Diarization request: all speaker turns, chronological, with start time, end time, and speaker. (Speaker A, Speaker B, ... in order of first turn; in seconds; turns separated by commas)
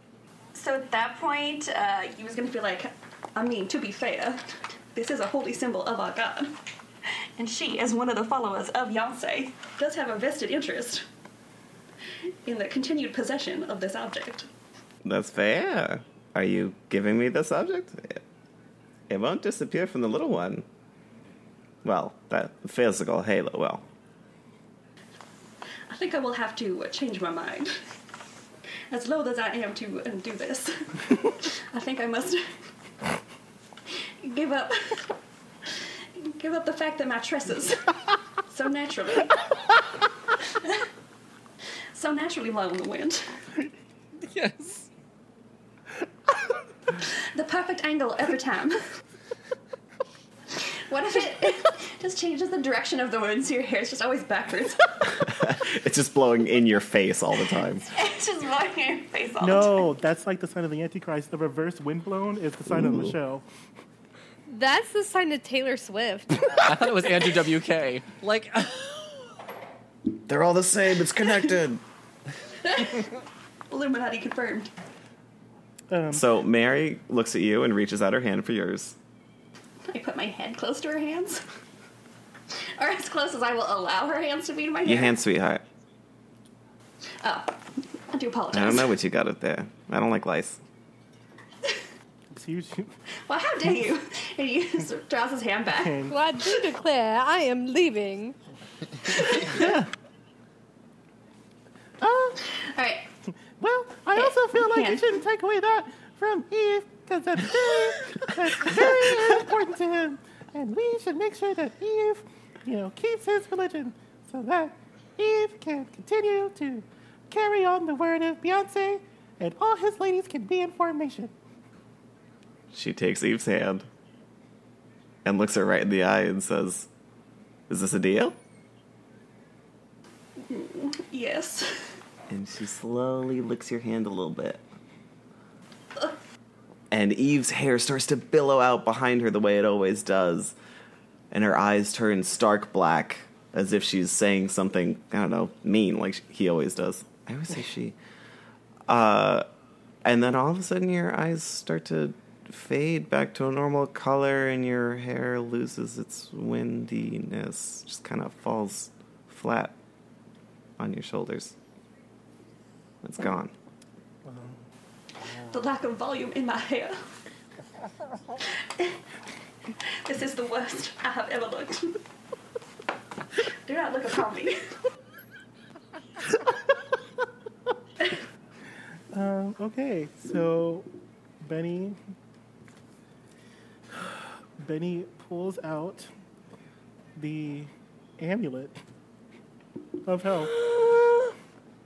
Speaker A: 0.5-6.5, Speaker A: 7.4-11.0, Speaker A: 12.4-14.5, Speaker B: 15.0-18.2, Speaker B: 19.1-20.6, Speaker B: 21.8-23.8, Speaker A: 25.9-27.8, Speaker A: 28.9-32.4, Speaker A: 33.9-39.8, Speaker A: 40.4-40.9, Speaker A: 41.9-43.2, Speaker C: 44.2-44.9, Speaker A: 47.0-48.8, Speaker A: 50.5-55.3, Speaker B: 55.2-57.9, Speaker A: 57.9-60.0, Speaker D: 59.4-63.4, Speaker B: 62.7-63.1, Speaker E: 64.5-66.6, Speaker C: 66.5-69.2, Speaker B: 70.3-71.8, Speaker A: 72.6-73.1, Speaker A: 73.7-74.7, Speaker D: 75.9-76.3, Speaker B: 76.1-79.0, Speaker A: 79.9-81.4, Speaker A: 82.8-85.2, Speaker B: 84.8-85.6, Speaker A: 87.2-88.9, Speaker B: 88.5-90.6, Speaker D: 92.3-92.9, Speaker A: 93.3-96.0, Speaker D: 95.7-96.2, Speaker E: 96.1-98.4, Speaker D: 102.0-102.5, Speaker A: 102.5-103.1, Speaker D: 103.6-121.3, Speaker A: 104.1-105.2, Speaker B: 122.7-123.9, Speaker B: 125.2-126.9, Speaker B: 127.7-128.3, Speaker A: 130.4-131.9, Speaker B: 132.3-134.6, Speaker B: 136.9-140.5, Speaker B: 141.3-148.0, Speaker B: 148.9-149.4, Speaker B: 150.0-159.8, Speaker B: 160.8-161.5, Speaker B: 163.0-163.5, Speaker D: 164.3-164.6, Speaker A: 165.5-167.0, Speaker A: 168.4-169.0, Speaker A: 169.8-172.0, Speaker A: 173.6-174.6, Speaker D: 179.1-180.9, Speaker D: 181.4-182.0, Speaker D: 184.0-186.1, Speaker D: 187.2-188.8, Speaker D: 190.0-190.6, Speaker E: 190.6-191.3